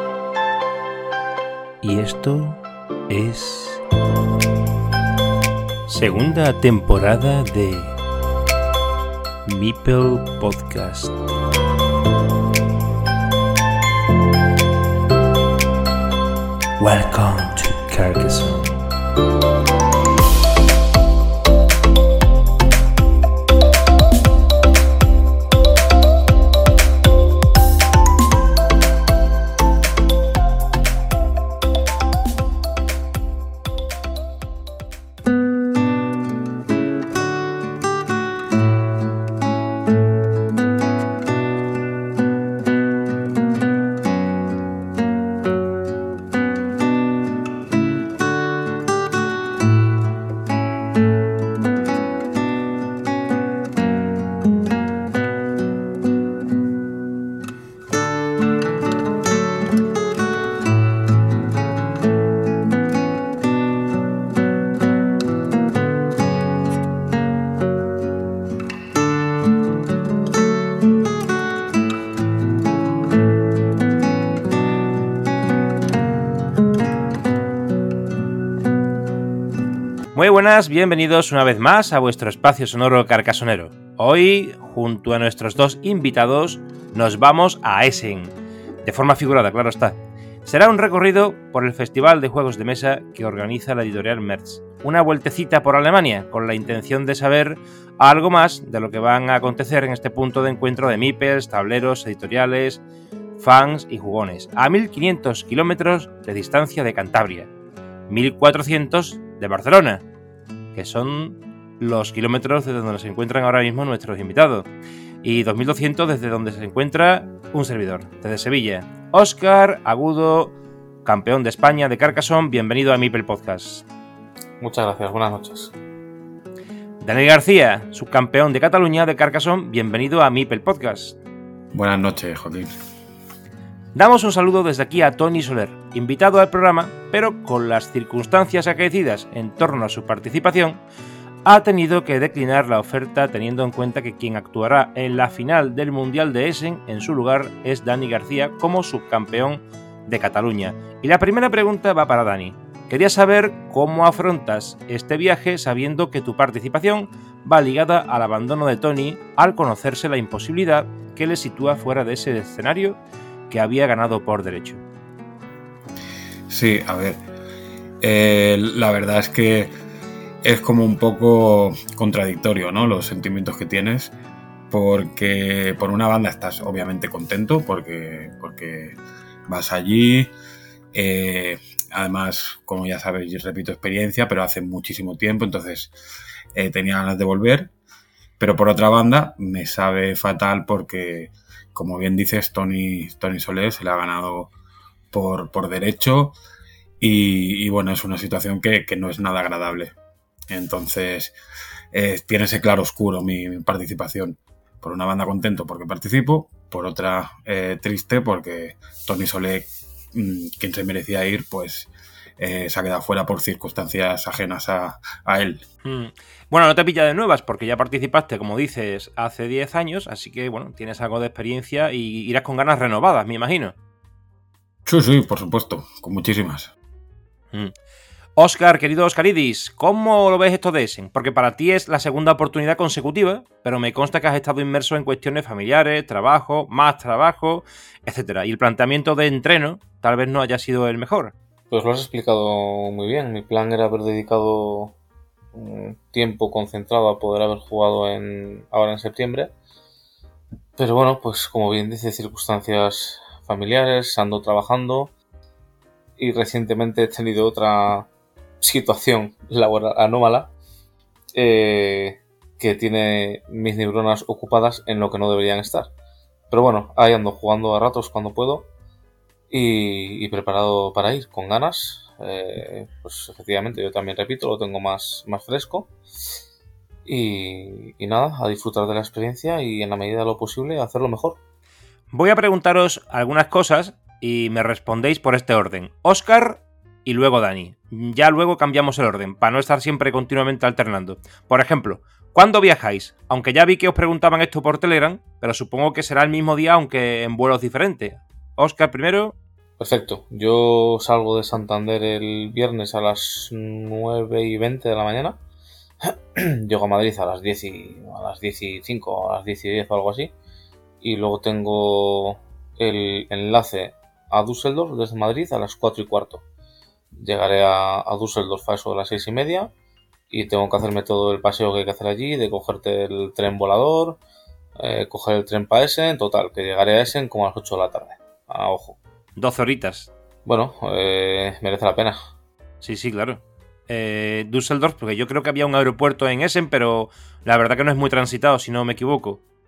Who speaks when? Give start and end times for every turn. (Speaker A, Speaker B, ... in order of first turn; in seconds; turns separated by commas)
Speaker A: 1.8-3.8, Speaker A: 5.9-8.0, Speaker A: 9.5-11.2, Speaker A: 16.8-18.8, Speaker A: 80.2-102.8, Speaker A: 103.4-107.5, Speaker A: 108.1-110.0, Speaker A: 110.8-114.7, Speaker A: 115.2-120.5, Speaker A: 121.0-123.8, Speaker B: 124.6-125.7, Speaker A: 127.0-131.2, Speaker C: 131.7-132.7, Speaker A: 133.9-140.8, Speaker A: 141.4-163.0, Speaker A: 163.5-164.8, Speaker C: 166.5-167.2, Speaker C: 168.0-169.7, Speaker C: 170.4-174.1, Speaker C: 174.7-180.3, Speaker C: 180.9-185.9, Speaker C: 186.5-187.7, Speaker C: 188.4-194.5, Speaker C: 195.1-196.4, Speaker C: 197.0-199.9, Speaker C: 200.5-201.3, Speaker C: 201.9-215.7, Speaker A: 215.8-223.8, Speaker C: 224.9-226.7, Speaker A: 228.4-241.3, Speaker B: 241.7-244.9, Speaker B: 245.5-249.5, Speaker B: 250.8-255.1, Speaker B: 256.2-258.1, Speaker B: 258.6-260.5, Speaker B: 261.4-265.9, Speaker B: 266.5-268.7, Speaker B: 269.5-275.9, Speaker B: 277.1-281.4, Speaker A: 282.1-299.4, Speaker B: 299.8-305.4, Speaker B: 306.0-310.3, Speaker B: 311.0-316.4, Speaker B: 317.2-319.7, Speaker B: 320.3-324.2, Speaker B: 324.8-329.0, Speaker A: 329.4-330.1, Speaker B: 330.4-332.2, Speaker A: 332.8-339.4